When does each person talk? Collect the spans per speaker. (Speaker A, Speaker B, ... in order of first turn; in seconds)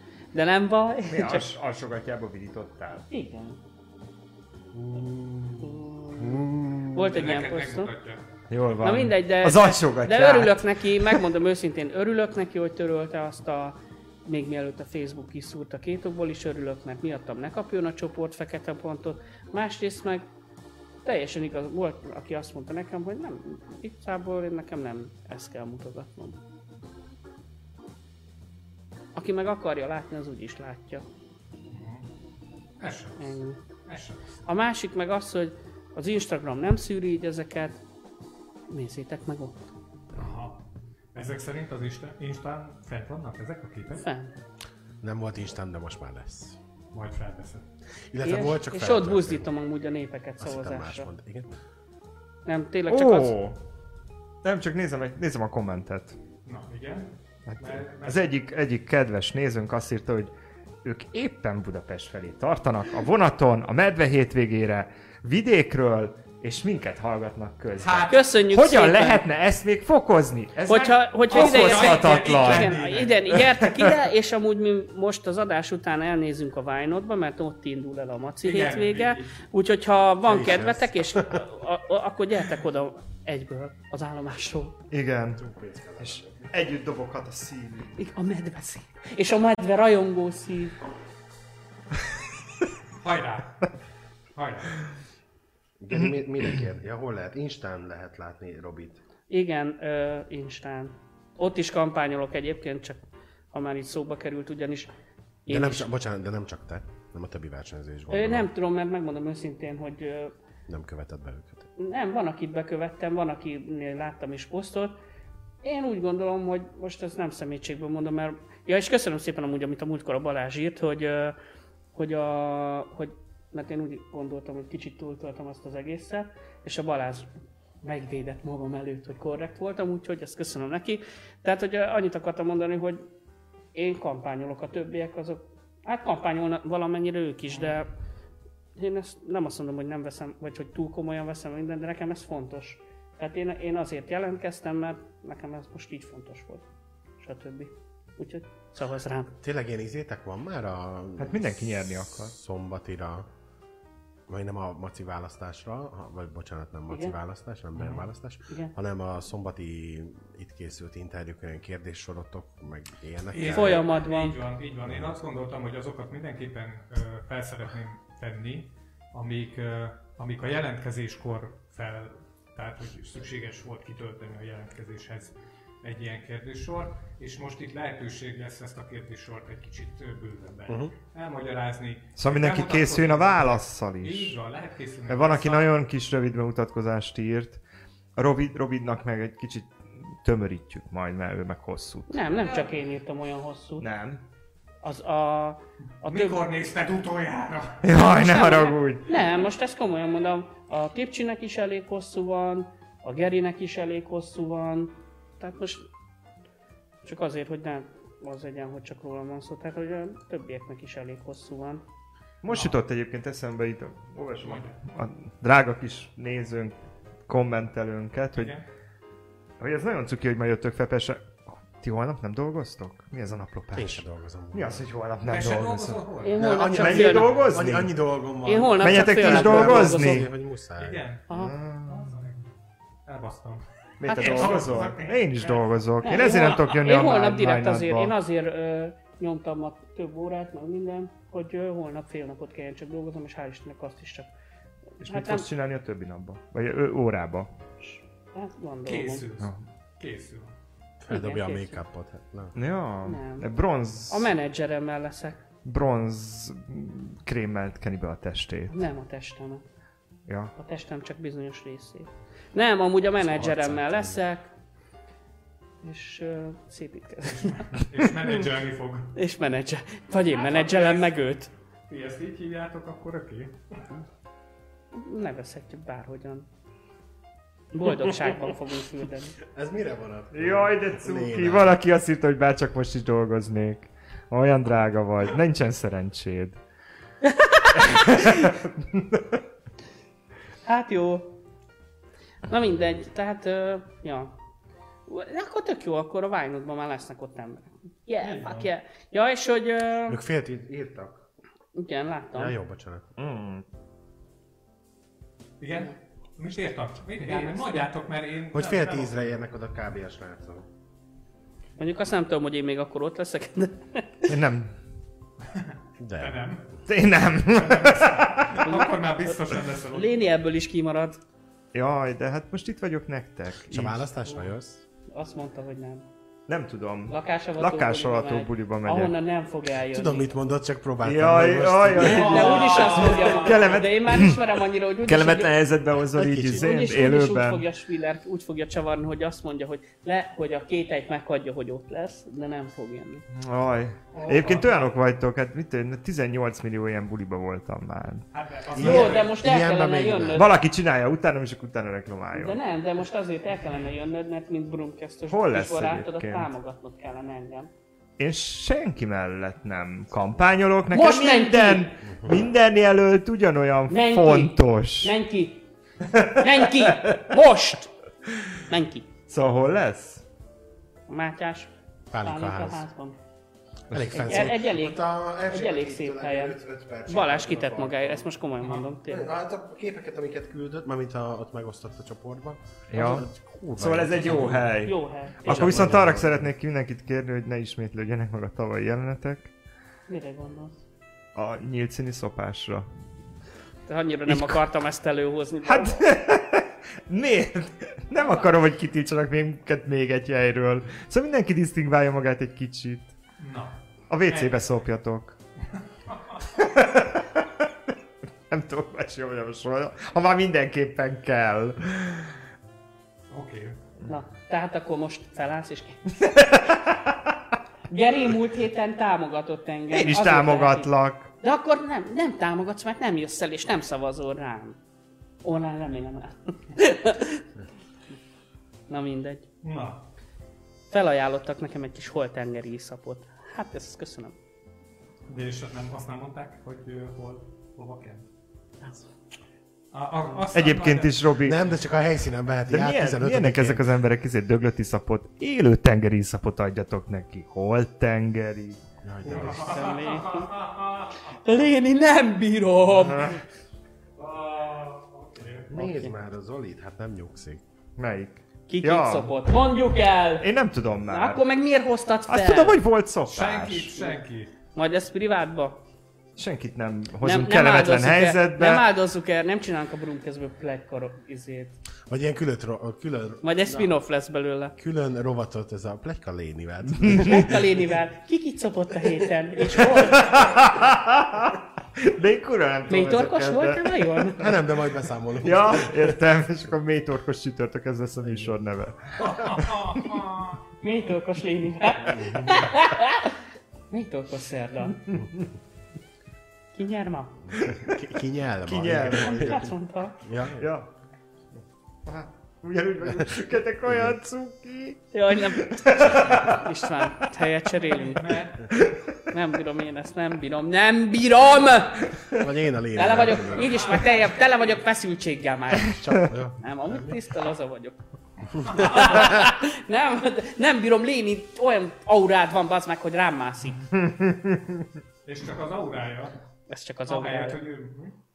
Speaker A: 0.3-1.5, 2.9-3.6, 5.6-7.9, 8.8-20.3, 21.0-26.4, 29.1-31.1, 33.2-33.6, 34.5-37.8, 38.7-39.7, 43.9-44.4, 48.2-51.1, 52.5-53.4, 68.1-69.2, 70.7-84.8, 88.0-90.8, 99.3-104.9, 105.5-105.9, 108.1-110.3, 111.8-115.0, 115.6-121.4, 122.0-127.3, 127.8-133.1, 133.7-137.9, 138.8-146.7, 147.2-149.3, 156.9-157.2, 163.5-164.4, 192.1-193.9, 194.8-196.4, 198.0-205.9, 207.0-211.8, 226.2-227.5, 228.4-230.3, 231.3-231.5, 234.1-234.9, 236.0-244.3, 245.0-245.5, 247.8-249.3, 251.1-251.8, 253.1-253.5, 254.1-255.4, 258.7-259.6, 260.6-264.5, 265.8-267.8, 269.1-271.5, 274.9-276.5, 277.7-279.4, 287.2-288.2, 290.6-291.4, 292.4-294.4, 295.1-300.2, 301.8-302.6, 307.2-307.9, 311.8-314.3, 318.6-321.2, 325.1-326.1, 327.1-330.3, 332.0-335.6, 336.6-343.2, 348.8-350.5, 352.3-357.7, 360.9-362.0, 363.9-365.7, 366.4-367.9, 368.7-369.1, 371.1-373.2, 374.1-379.3, 384.8-385.9, 390.1-390.8, 393.9-396.0, 398.2-398.5, 414.1-416.0, 417.9-420.9, 421.4-424.8, 425.4-427.5, 428.9-429.5, 430.9-434.4, 438.8-439.1, 449.4-450.6, 451.2-453.4, 455.8-456.1, 458.7-460.5, 461.1-462.8, 464.7-465.8, 467.2-471.8, 473.4-474.8, 477.1-480.5, 482.9-484.5, 490.8-493.4, 493.9-495.1, 496.7-497.5, 499.2-500.2, 505.1-508.4, 509.3-512.1, 512.9-516.0, 516.6-518.0, 518.6-523.8, 526.7-527.6
Speaker B: 1.1-3.0, 8.5-11.2, 52.9-53.6, 54.4-56.2, 57.5-60.3, 60.8-74.0, 84.9-85.4, 86.0-88.0, 151.2-152.3, 182.2-184.4, 185.1-187.6, 188.2-192.2, 193.8-194.2, 197.8-199.1, 212.4-216.8, 217.3-218.6, 219.6-226.0, 226.7-227.9, 228.8-230.3, 231.3-232.2, 234.0-238.2, 245.0-247.5, 252.6-254.3, 255.6-258.8, 260.3-260.5, 280.3-286.6, 287.8-289.4, 303.2-303.6, 314.3-314.8, 316.9-318.7, 321.7-324.0, 326.5-329.1, 331.0-334.5, 335.1-337.6, 343.3-348.3, 350.4-352.6, 355.3-356.5, 358.2-365.2, 366.1-367.2, 369.3-370.2, 373.9-374.5, 382.9-389.5, 391.4-392.9, 394.3-394.6, 395.6-403.1, 404.1-405.4, 406.5-407.7, 408.5-412.3, 416.2-417.4, 419.9-421.3, 440.5-441.7, 442.7-448.8, 452.9-453.4, 458.0-459.3, 460.4-461.4, 462.3-463.9, 466.4-468.9, 477.1-477.4, 479.9-484.4, 485.4-490.2, 497.6-498.0, 498.7-499.7, 500.6-500.9, 502.1-506.7, 523.9-524.9
Speaker C: 4.7-7.1, 45.0-46.6, 48.1-49.5, 50.4-51.5, 80.2-81.5, 85.4-86.5, 95.8-99.0, 105.5-108.5, 110.7-111.7, 149.3-151.5, 152.2-153.3, 154.3-163.8, 164.8-165.2, 223.7-224.8, 226.4-231.0, 251.0-252.6, 263.2-264.2, 279.4-281.8, 300.1-301.2, 302.3-303.1, 308.5-310.7, 316.0-316.5, 323.7-324.8, 329.9-332.6, 336.1-336.7, 348.7-350.5, 372.1-372.8, 373.9-378.3, 379.1-384.7, 385.4-386.4, 441.4-443.9, 449.0-449.8, 455.7-457.6, 472.1-473.9, 474.8-477.7, 484.4-486.2, 488.2-488.6, 492.0-492.7, 497.5-500.7, 503.9-504.2, 512.4-513.9, 515.9-517.2
Speaker D: 7.1-8.2, 31.7-32.1, 32.8-34.4, 40.1-40.6, 41.1-44.0, 46.9-47.6, 56.5-58.3, 67.8-68.2, 71.3-73.4, 78.4-79.3, 93.0-93.7, 94.3-94.8, 157.8-158.1, 163.3-185.7, 192.4-192.7, 196.0-197.9, 212.5-212.8, 214.4-214.8, 218.3-218.7, 225.3-226.4, 230.8-231.2, 231.9-232.5, 233.1-235.7, 248.8-250.5, 267.3-269.1, 270.3-271.2, 271.9-273.8, 298.2-298.7, 305.6-309.4, 315.5-316.7, 317.5-320.1, 332.0-333.8, 344.1-344.9, 348.3-349.4, 403.4-404.6, 405.7-406.4, 413.3-413.8, 429.6-430.1, 435.3-438.3, 439.9-441.2, 449.2-451.3, 453.0-453.3, 454.2-455.7, 463.3-464.5, 489.2-490.6, 507.8-508.7, 513.3-514.6, 518.7-519.3, 525.2-526.4, 527.1-528.1